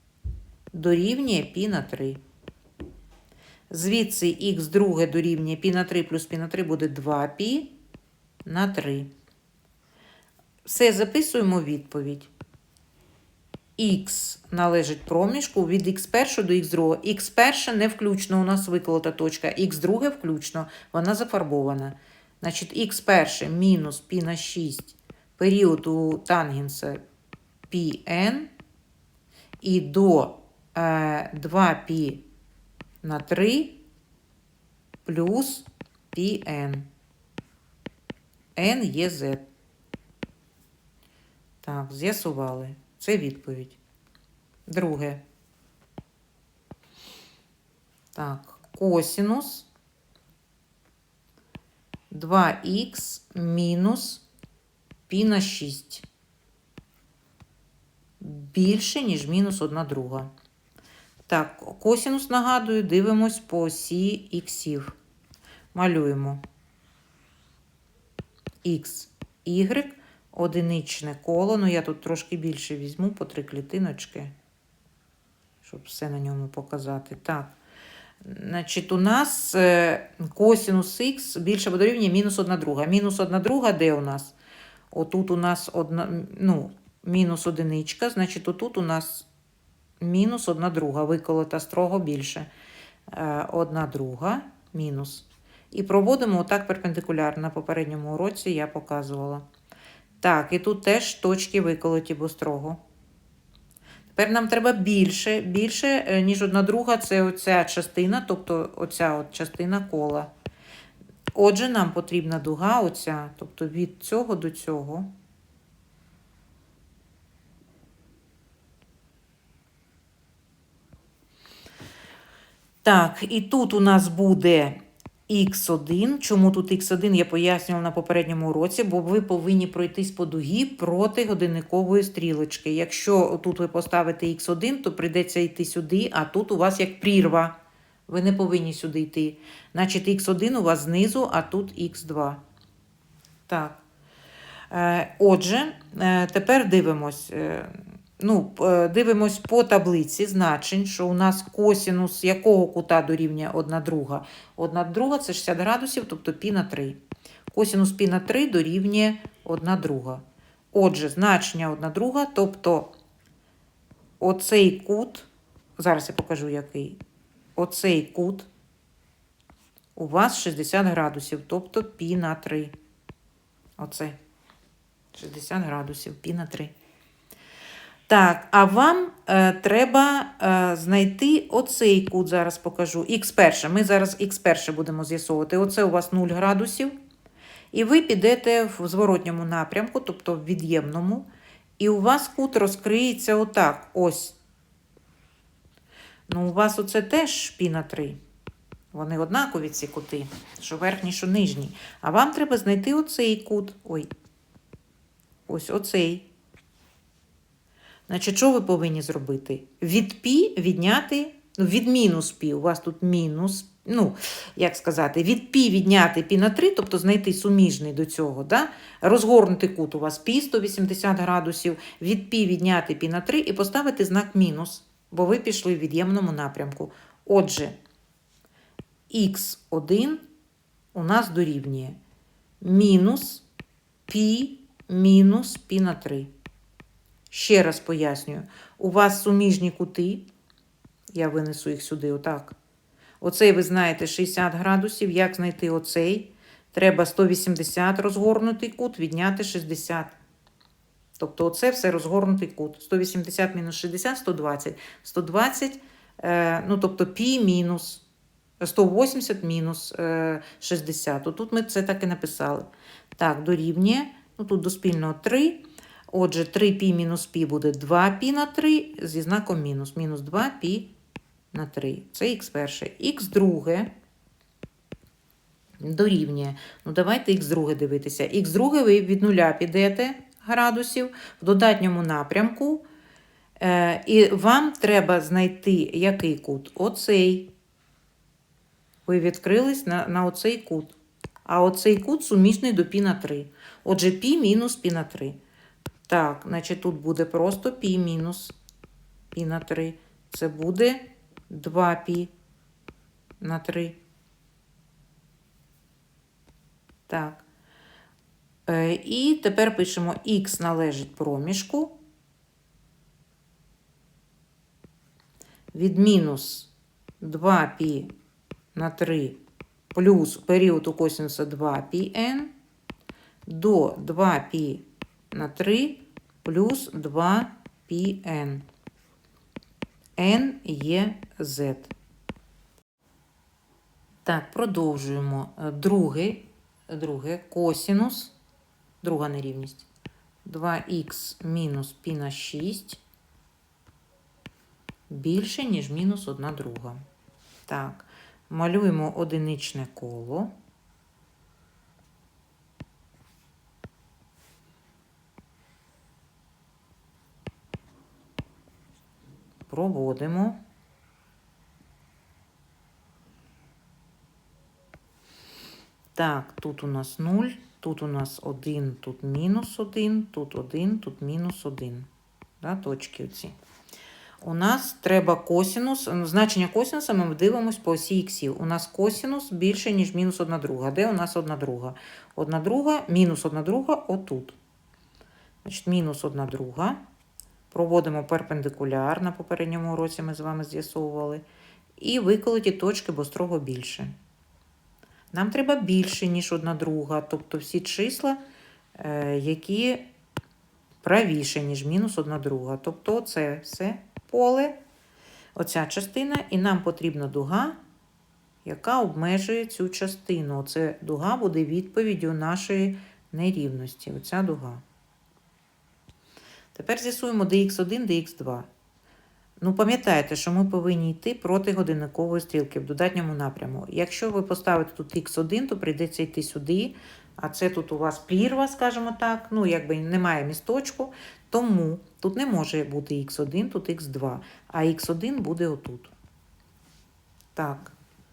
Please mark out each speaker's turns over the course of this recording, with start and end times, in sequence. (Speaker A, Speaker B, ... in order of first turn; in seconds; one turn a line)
Speaker A: 0.7-2.2
Speaker A: 3.7-7.7
Speaker A: 8.4-9.1
Speaker A: 10.6-12.3
Speaker A: 13.8-27.0
Speaker A: 27.7-28.5
Speaker A: 29.6-32.2
Speaker A: 33.0-33.8
Speaker A: 35.0-36.9
Speaker A: 38.5-39.5
Speaker A: 41.6-43.8
Speaker A: 44.7-45.2
Speaker A: 48.1-49.7
Speaker A: 52.1-54.2
Speaker A: 55.1-56.0
Speaker A: 58.2-60.3
Speaker A: 61.3-64.9
Speaker A: 65.7-66.4
Speaker A: 68.6-74.3
Speaker A: 75.6-77.5
Speaker A: 78.2-84.3
Speaker A: 84.9-89.3
Speaker A: 90.0-92.5
Speaker A: 93.1-99.4
Speaker A: 100.2-102.8
Speaker A: 104.1-110.3
Speaker A: 111.3-115.1
Speaker A: 122.8-137.6
Speaker A: 138.1-142.4
Speaker A: 143.5-143.8
Speaker A: 144.7-162.9
Speaker A: 164.2-167.0
Speaker A: 167.6-168.5
Speaker A: 169.9-172.7
Speaker A: 173.8-174.2
Speaker A: 175.1-176.7
Speaker A: 178.1-186.9
Speaker A: 187.7-191.3
Speaker A: 191.8-194.4
Speaker A: 196.3-198.2
Speaker A: 198.9-204.1
Speaker A: 205.5-206.3
Speaker A: 208.1-227.8
Speaker A: 229.1-230.2
Speaker A: 230.9-232.0
Speaker A: 232.6-233.4
Speaker A: 234.1-236.3
Speaker A: 237.3-240.3
Speaker A: 241.1-242.6
Speaker A: 243.2-250.1
Speaker A: 251.2-258.0
Speaker A: 258.6-270.9
Speaker A: 271.5-273.9
Speaker A: 275.8-282.8
Speaker A: 283.6-287.5
Speaker A: 289.1-295.4
Speaker A: 296.1-298.6
Speaker A: 299.3-302.3
Speaker A: 303.4-304.0
Speaker A: 307.1-307.4
Speaker A: 308.7-311.9
Speaker A: 315.7-318.1
Speaker A: 318.7-319.4
Speaker A: 319.9-322.5
Speaker A: 323.4-328.6
Speaker A: 330.2-331.9
Speaker A: 334.2-338.3
Speaker A: 339.0-339.9
Speaker A: 340.4-343.0
Speaker A: 345.1-347.0
Speaker A: 347.7-350.5
Speaker A: 359.7-360.6
Speaker A: 366.1-372.1
Speaker A: 372.6-373.5
Speaker A: 374.4-384.6
Speaker A: 385.6-387.0
Speaker A: 387.7-391.4
Speaker A: 392.0-394.1
Speaker A: 395.3-398.4
Speaker A: 399.0-400.0
Speaker A: 401.0-404.8
Speaker A: 405.5-407.8
Speaker A: 408.6-414.8
Speaker A: 416.7-418.7
Speaker A: 419.6-436.1
Speaker A: 437.5-437.9